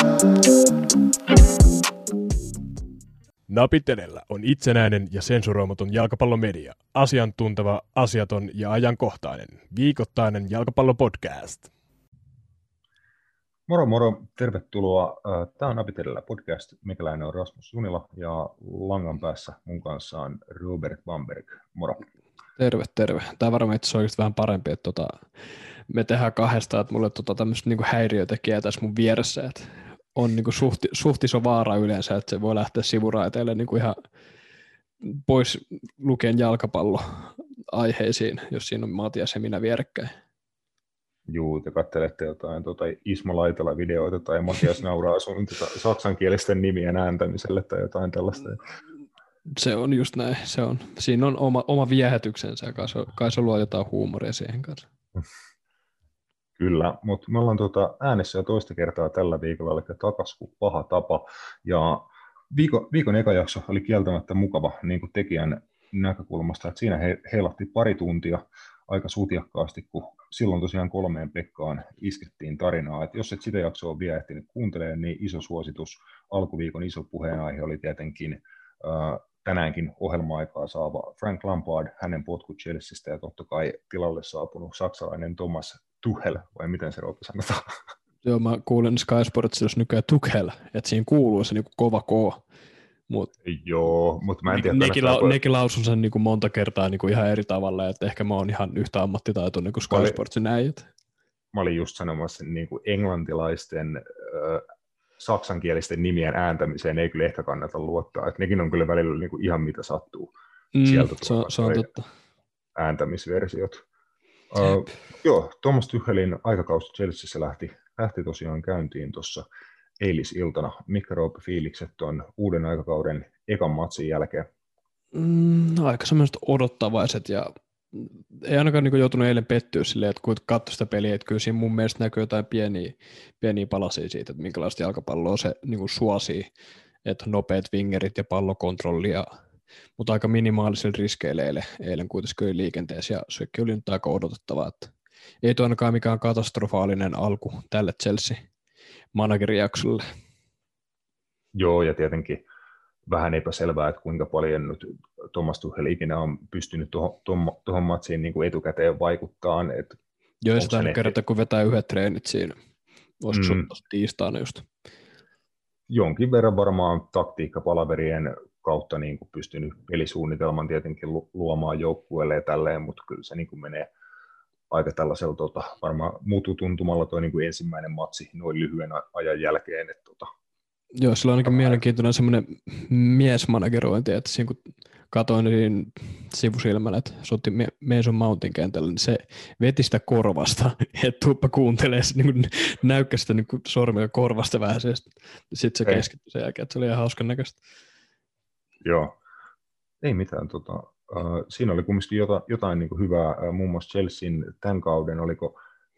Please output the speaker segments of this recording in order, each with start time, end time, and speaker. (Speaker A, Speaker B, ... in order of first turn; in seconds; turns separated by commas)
Speaker A: 3.5-11.7, Speaker B: 13.7-22.0, Speaker C: 22.6-25.3, Speaker C: 25.9-34.0, Speaker C: 35.0-40.1, Speaker B: 41.3-48.6, Speaker C: 49.5-54.9, Speaker B: 56.6-87.7, Speaker C: 88.2-92.4, Speaker B: 93.4-95.4, Speaker C: 94.5-100.9, Speaker B: 99.9-100.2, Speaker B: 101.5-104.7, Speaker B: 105.2-110.3, Speaker C: 110.7-112.1, Speaker B: 110.8-111.9, Speaker B: 112.8-113.8, Speaker B: 114.5-119.5, Speaker B: 120.0-124.5, Speaker C: 125.1-136.5, Speaker C: 137.0-139.3, Speaker C: 140.0-148.4, Speaker C: 149.1-150.0, Speaker B: 151.6-152.4, Speaker B: 153.1-160.0, Speaker C: 160.4-162.6, Speaker B: 160.6-161.2, Speaker C: 163.2-164.7, Speaker B: 163.3-163.7, Speaker B: 165.9-173.9, Speaker B: 174.7-180.3, Speaker C: 181.0-197.6, Speaker B: 181.5-181.8, Speaker B: 198.8-199.2, Speaker B: 200.0-205.6